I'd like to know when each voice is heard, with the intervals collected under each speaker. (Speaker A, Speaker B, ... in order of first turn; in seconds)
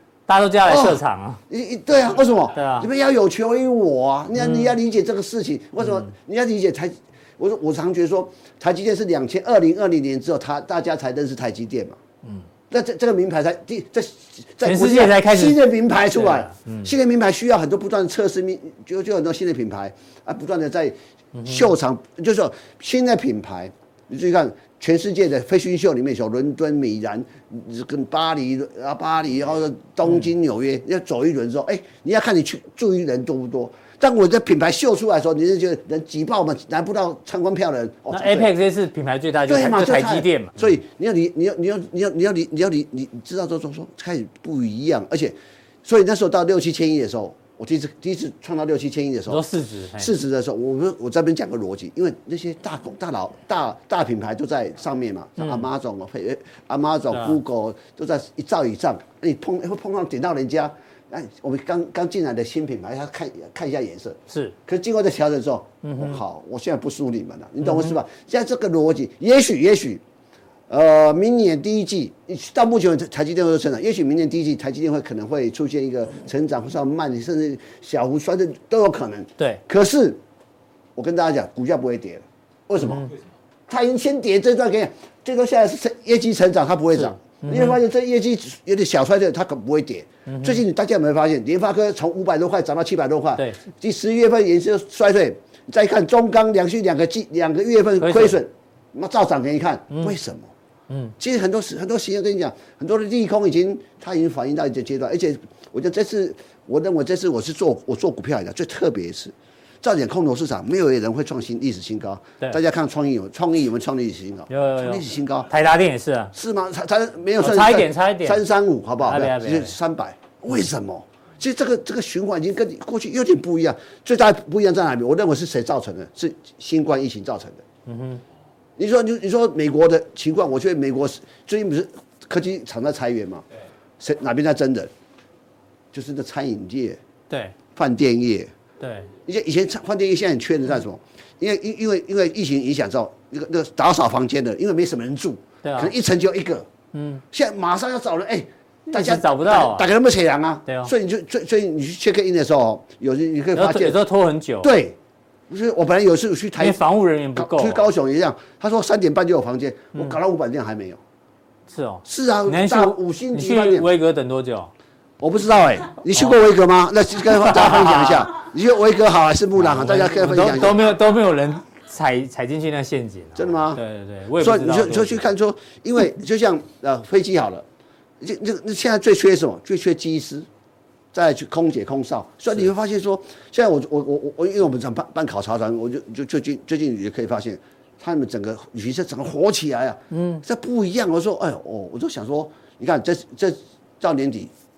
Speaker A: 0.3-1.4, 2.5-2.9, 4.4-4.8, 5.8-6.1, 14.6-16.9, 21.3-21.7, 38.1-40.6, 49.3-50.1, 55.4-55.6, 57.1-57.4, 64.3-64.5, 65.8-66.2, 67.6-67.9, 82.8-83.1, 87.0-87.8, 90.3-90.6, 93.3-93.6, 98.0-98.3, 100.9-101.1, 114.5-116.3, 117.4-118.4, 119.0-119.7, 127.8-128.2, 137.3-137.5, 138.8-139.1, 145.6-145.9, 146.9-147.2, 148.9-149.9, 150.7-150.9, 153.5-154.7, 156.6-157.8, 161.7-164.7, 167.4-168.3, 169.6-175.3, 190.1-190.4
Speaker B: 0.6-12.0, 12.7-38.5, 39.5-49.4, 50.0-70.0, 70.7-80.2, 81.0-83.1, 83.7-100.5, 101.2-115.5, 116.3-127.6, 128.8-133.4, 134.0-134.9, 135.9-137.0, 137.7-138.5, 139.2-146.7, 147.3-154.0, 154.6-154.9, 155.5-156.8, 157.3-161.0, 162.0-163.9, 165.2-170.9, 173.3-173.8, 174.4-177.6, 178.2-180.5, 181.1-194.5